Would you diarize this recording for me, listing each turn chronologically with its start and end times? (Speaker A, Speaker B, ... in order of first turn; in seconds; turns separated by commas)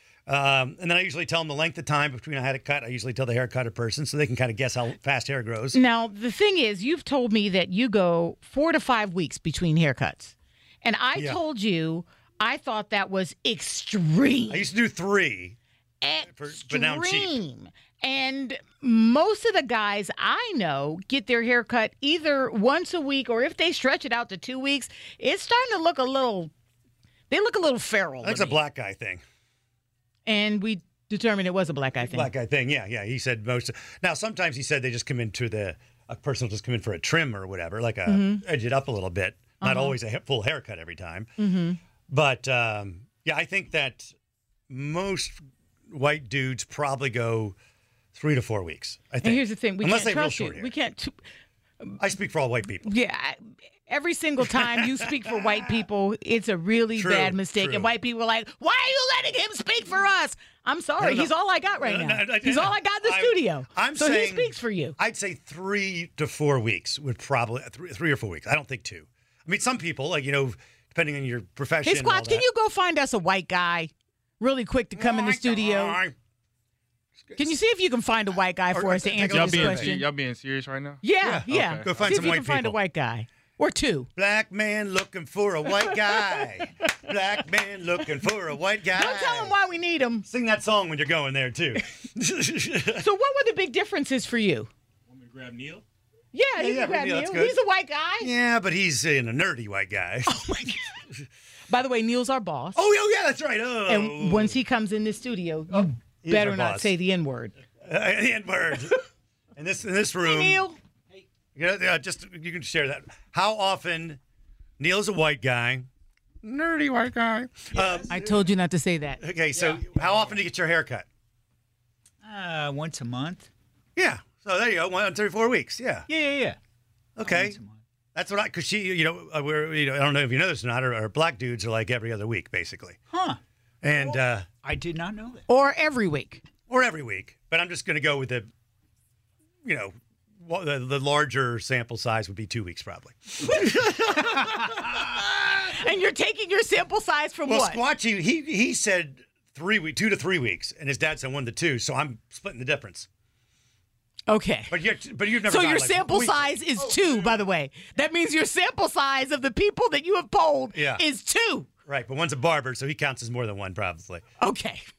Speaker A: 0.3-5.8, Speaker B: 5.7-14.7, Speaker A: 11.1-11.4, Speaker A: 14.5-15.6, Speaker B: 16.0-26.5, Speaker A: 16.3-17.4, Speaker B: 27.3-28.6, Speaker A: 28.2-29.2, Speaker B: 30.2-32.3, Speaker A: 32.0-41.3, Speaker B: 38.0-38.4, Speaker B: 39.6-40.0, Speaker B: 41.4-41.8, Speaker A: 42.1-44.1, Speaker A: 44.7-47.5, Speaker A: 48.1-50.7, Speaker B: 49.2-51.2, Speaker A: 52.0-52.9, Speaker B: 52.8-65.0, Speaker A: 54.5-55.6, Speaker A: 57.0-57.9, Speaker A: 61.0-72.4, Speaker B: 71.8-76.0, Speaker A: 74.9-76.1, Speaker A: 77.2-77.5, Speaker B: 77.4-80.1, Speaker A: 78.7-79.9, Speaker C: 79.3-81.9, Speaker B: 81.0-84.1, Speaker A: 81.2-82.8, Speaker A: 84.2-89.5, Speaker B: 88.9-90.2, Speaker A: 90.2-93.0, Speaker B: 92.9-94.7, Speaker C: 95.1-95.8, Speaker B: 96.3-98.3, Speaker A: 96.5-97.6, Speaker A: 98.2-100.5, Speaker B: 100.3-101.0, Speaker B: 101.7-102.8, Speaker A: 102.7-104.6, Speaker B: 103.9-107.5, Speaker A: 105.7-106.9, Speaker A: 107.8-109.0, Speaker A: 109.5-110.6, Speaker B: 110.2-110.8, Speaker A: 111.5-114.2, Speaker A: 114.8-115.9, Speaker A: 116.4-118.3, Speaker D: 117.7-118.1, Speaker B: 118.1-119.2, Speaker A: 119.2-121.0, Speaker D: 119.5-120.1, Speaker D: 122.2-123.5, Speaker A: 124.0-126.1, Speaker D: 126.1-126.6, Speaker A: 127.2-127.6, Speaker D: 127.2-127.8, Speaker A: 128.1-133.0, Speaker D: 133.1-133.4, Speaker A: 133.8-134.5, Speaker D: 133.9-135.4, Speaker B: 135.5-136.4, Speaker A: 136.7-138.5, Speaker A: 139.6-145.3, Speaker B: 145.7-147.8, Speaker A: 147.4-153.1, Speaker B: 154.3-154.8, Speaker A: 154.7-156.5, Speaker B: 155.4-161.7, Speaker A: 160.7-161.0, Speaker A: 161.8-164.2, Speaker B: 164.4-164.8